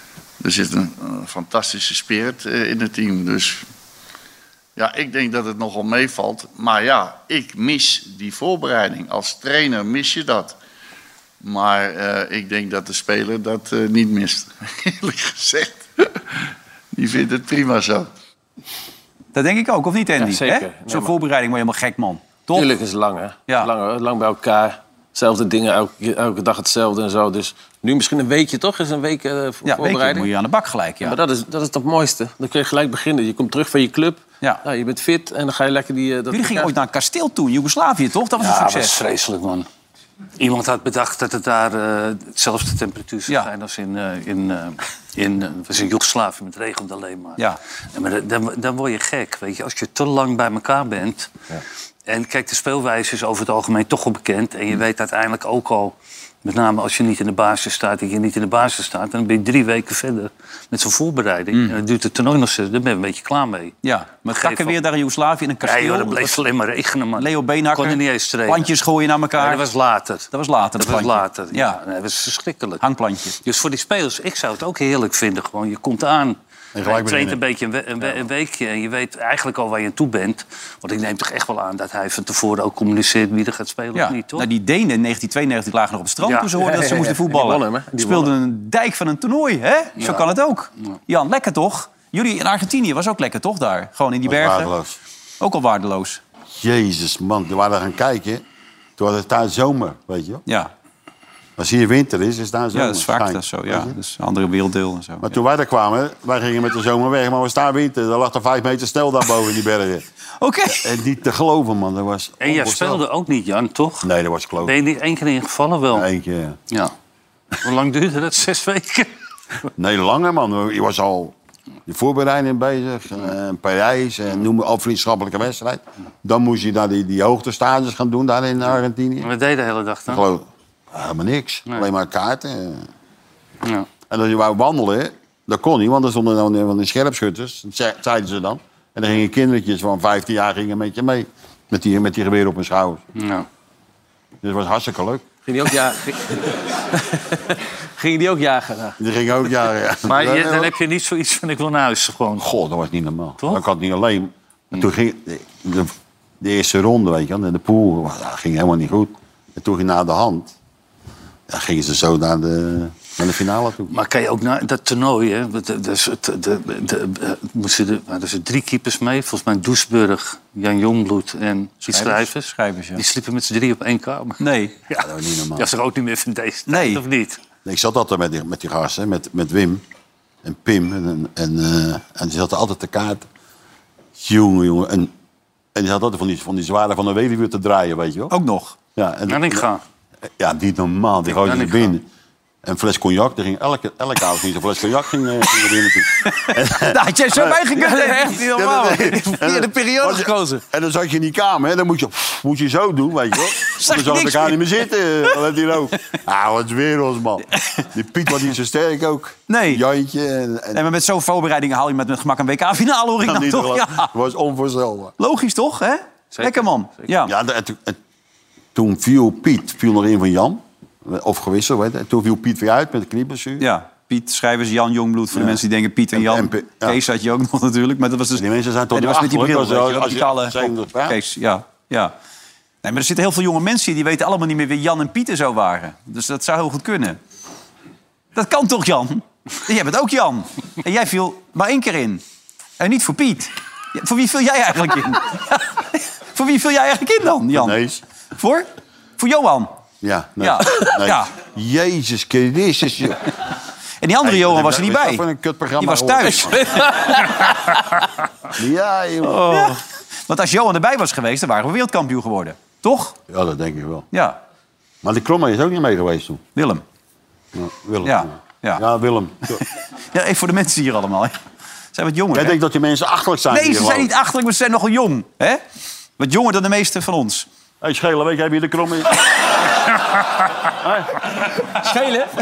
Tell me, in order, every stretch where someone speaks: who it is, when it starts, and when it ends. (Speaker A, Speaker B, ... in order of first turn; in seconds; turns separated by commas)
Speaker A: 0.4-3.6, Speaker A: 4.8-10.6, Speaker A: 11.4-16.2, Speaker A: 16.9-18.1, Speaker B: 19.3-22.7, Speaker C: 20.2-21.2, Speaker C: 22.5-30.3, Speaker B: 29.6-31.2, Speaker C: 31.0-36.7, Speaker B: 36.3-39.0, Speaker D: 38.4-39.7, Speaker D: 40.4-51.3, Speaker D: 52.1-63.8, Speaker B: 61.5-61.8, Speaker B: 63.8-66.4, Speaker D: 64.3-64.8, Speaker D: 65.6-68.7, Speaker B: 67.2-69.7, Speaker D: 69.4-72.8, Speaker B: 70.3-71.8, Speaker B: 72.8-73.4, Speaker D: 73.4-84.5, Speaker E: 76.8-77.4, Speaker B: 83.9-94.7, Speaker D: 86.2-86.5, Speaker C: 86.6-88.3, Speaker E: 94.2-95.0, Speaker B: 95.4-96.2, Speaker E: 96.5-98.4, Speaker E: 99.0-100.4, Speaker E: 101.6-103.9, Speaker B: 102.7-105.3, Speaker E: 105.2-110.0, Speaker B: 110.4-110.8, Speaker E: 110.7-113.0, Speaker D: 112.4-114.1, Speaker E: 114.0-114.8, Speaker D: 114.6-116.1, Speaker E: 115.9-116.6, Speaker D: 117.6-119.1, Speaker E: 119.8-121.3, Speaker E: 121.9-129.3, Speaker D: 129.2-130.2, Speaker E: 130.1-132.9, Speaker E: 134.1-143.0, Speaker D: 143.2-143.5, Speaker E: 144.4-145.2, Speaker C: 145.5-149.0, Speaker E: 149.0-150.7, Speaker D: 150.1-152.5, Speaker E: 152.4-160.6, Speaker E: 161.5-163.9, Speaker D: 163.9-177.4, Speaker B: 171.9-173.0, Speaker B: 174.4-174.7, Speaker E: 175.0-175.7, Speaker B: 176.7-177.0, Speaker E: 177.7-179.8, Speaker E: 180.4-183.3, Speaker E: 184.2-185.1, Speaker E: 185.8-188.3, Speaker B: 188.3-188.8, Speaker E: 189.0-189.7, Speaker D: 189.3-189.8, Speaker E: 190.4-192.1, Speaker D: 191.3-192.0, Speaker E: 192.6-197.6, Speaker B: 196.8-198.5, Speaker C: 197.8-200.6, Speaker E: 198.5-210.8, Speaker B: 203.7-204.6, Speaker B: 209.5-209.8, Speaker B: 210.7-214.1, Speaker E: 213.2-215.1, Speaker B: 215.2-217.3, Speaker C: 216.3-217.1, Speaker E: 217.2-218.0, Speaker E: 218.8-223.7, Speaker B: 223.6-232.1, Speaker E: 225.3-225.6, Speaker E: 226.1-227.0, Speaker E: 228.3-231.2, Speaker B: 232.8-237.2, Speaker B: 238.3-242.2, Speaker B: 242.8-247.8, Speaker E: 247.5-248.0, Speaker B: 248.3-248.7, Speaker B: 249.2-249.7, Speaker E: 250.0-253.2, Speaker B: 250.4-251.3, Speaker B: 254.0-255.2, Speaker E: 254.2-256.6, Speaker B: 255.8-256.9, Speaker C: 256.5-257.6, Speaker E: 258.6-259.8, Speaker B: 259.4-263.2, Speaker E: 263.3-264.1, Speaker B: 264.1-264.4, Speaker E: 265.0-266.4, Speaker B: 266.6-266.8, Speaker E: 267.6-269.6, Speaker B: 268.0-268.8, Speaker B: 269.6-271.4, Speaker B: 271.9-272.6, Speaker E: 272.3-274.1, Speaker B: 273.5-275.6, Speaker B: 276.2-277.5, Speaker E: 277.8-279.2, Speaker E: 280.8-281.1